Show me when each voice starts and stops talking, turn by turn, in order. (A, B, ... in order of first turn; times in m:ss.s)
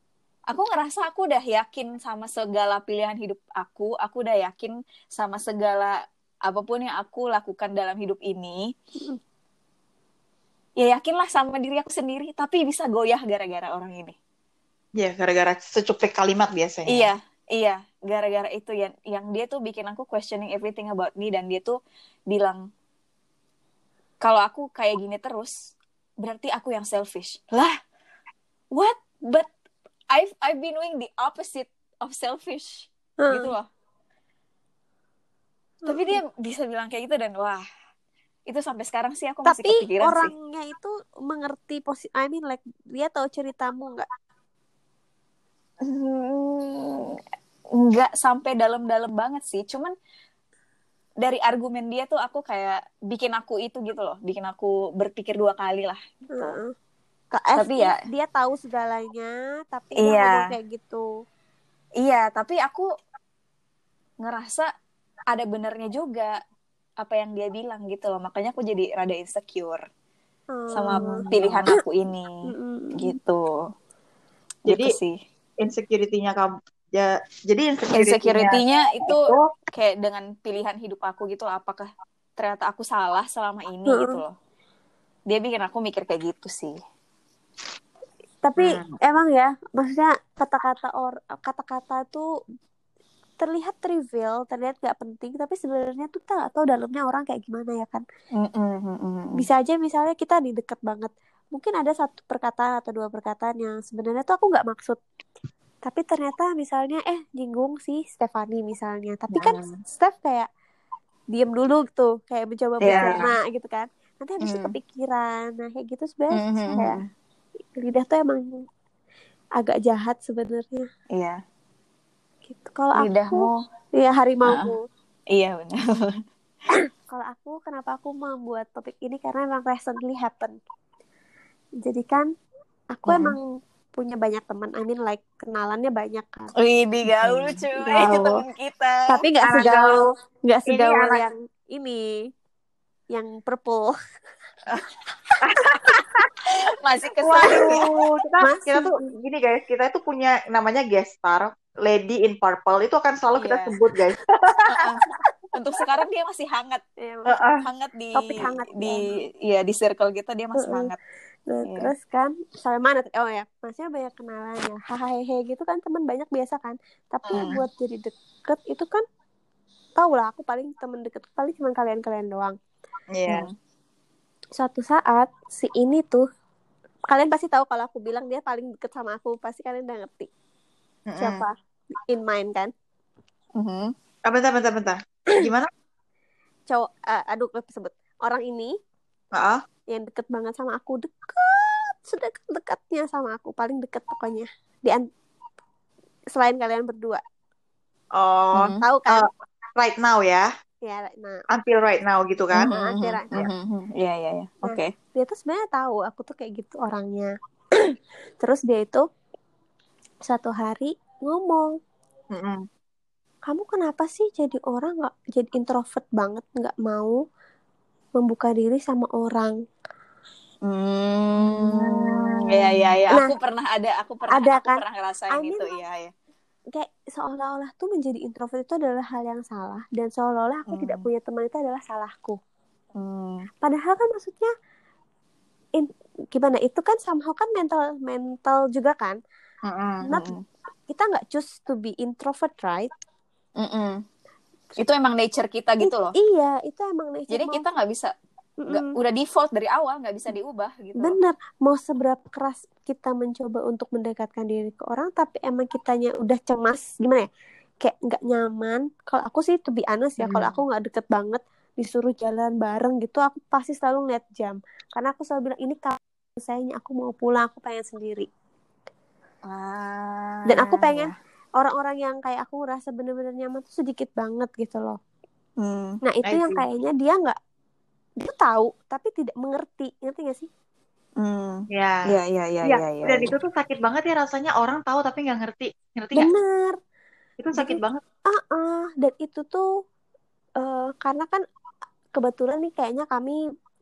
0:00.5-0:08.8 A
0:10.8-0:14.2 A
0:15.0-0:17.1 B
0:16.9-0:21.8 A
0:22.3-0:22.7 A
0:24.2-0:27.8 A
0:28.7-0:29.5 A
0:30.1-0:33.7 A
0:33.2-0:33.5 C
0:35.8-0:36.2 C
0:35.9-0:37.6 A
0:38.5-0:40.3 A
0:39.5-0:44.1 C
0:45.8-0:47.2 A
0:47.8-0:49.9 A
0:51.2-0:56.6 A
0:56.4-0:56.7 C
0:57.3-1:01.1 C
0:57.6-0:58.0 A
1:00.0-1:00.5 A
1:02.0-1:02.9 A
1:04.2-1:04.7 A
1:05.3-1:06.4 A
1:07.0-1:09.8 A
1:10.5-1:11.3 C
1:10.7-1:12.4 A
1:11.3-1:11.6 B
1:12.5-1:13.2 C
1:13.0-1:13.7 A
1:14.7-1:14.9 B
1:14.7-1:15.2 A
1:15.6-1:19.5 B
1:17.9-1:24.4 A
1:23.9-1:24.2 C
1:25.3-1:26.8 A
1:28.4-1:32.3 C
1:28.6-1:28.9 B
1:33.4-1:38.0 C
1:38.4-1:39.5 A
1:39.4-1:45.0 C
1:45.8-1:50.5 C
1:49.3-1:49.7 A
1:51.3-1:57.0 C
1:52.8-1:53.3 A
1:52.8-1:53.3 B
1:54.4-1:54.8 A
1:56.3-1:57.1 A
1:57.8-1:58.7 C
1:59.6-2:00.9 C
2:01.1-2:01.4 A
2:02.5-2:04.8 C
2:03.0-2:03.6 A
2:04.5-2:04.7 A
2:05.3-2:06.2 A
2:07.1-2:10.6 C
2:11.8-2:12.3 C
2:12.9-2:13.4 C
2:13.1-2:13.4 A
2:14.0-2:16.5 C
2:16.6-2:19.2 A
2:17.1-2:18.1 B
2:17.8-2:18.4 C
2:19.1-2:22.1 C
2:19.4-2:20.1 B
2:20.7-2:21.2 B
2:23.1-2:24.0 C
2:25.4-2:26.3 B
2:26.5-2:27.9 A
2:27.2-2:35.1 B
2:28.4-2:29.0 C
2:33.4-2:33.8 A
2:34.7-2:36.8 A
2:37.0-2:37.4 C
2:37.3-2:37.6 B
2:37.6-2:41.0 A
2:38.2-2:39.1 C
2:40.6-2:40.9 C
2:41.5-2:49.0 C
2:41.6-2:41.9 A
2:47.3-2:47.6 A
2:47.3-2:47.6 B
2:50.0-2:52.6 C
2:53.2-2:53.5 B
2:53.3-2:53.5 A
2:54.6-2:56.2 C
2:57.1-3:00.3 C
3:01.1-3:01.4 B
3:01.2-3:02.7 C
3:03.6-3:03.9 A
3:04.3-3:05.7 B
3:06.7-3:08.7 C
3:09.3-3:09.6 B
3:09.9-3:15.0 C
3:16.3-3:17.2 C
3:18.2-3:20.5 B
3:18.6-3:19.3 C
3:20.8-3:21.4 C
3:21.5-3:22.7 B
3:22.6-3:24.9 A
3:22.7-3:23.3 C
3:24.6-3:29.0 C
3:30.3-3:31.8 C
3:32.3-3:32.6 B
3:33.5-3:37.2 C
3:38.2-3:39.6 C
3:40.6-3:46.1 A
3:41.5-3:43.0 B
3:44.3-3:45.8 C
3:46.7-3:52.4 C
3:50.7-3:51.1 A
3:53.0-3:53.5 A
3:53.6-3:54.5 C
3:55.8-3:59.2 C
3:59.7-4:00.0 B
4:00.0-4:00.4 A
4:00.1-4:00.4 C
4:00.9-4:02.9 C
4:03.6-4:04.0 A
4:04.8-4:06.1 A
4:05.8-4:07.6 C
4:07.3-4:08.1 A
4:08.6-4:09.0 C
4:08.7-4:11.2 A
4:11.0-4:17.3 C
4:17.8-4:28.3 C
4:20.2-4:20.6 A
4:29.5-4:31.1 A
4:30.5-4:35.0 C
4:35.6-4:36.0 A
4:36.0-4:37.4 C
4:36.2-4:36.6 B
4:38.2-4:40.5 C
4:41.2-4:43.3 A
4:41.7-4:42.1 B
4:42.7-4:46.3 B
4:46.2-4:46.8 C
4:47.4-4:48.0 B
4:47.5-4:49.7 C
4:50.6-4:51.4 C
4:52.2-4:53.4 C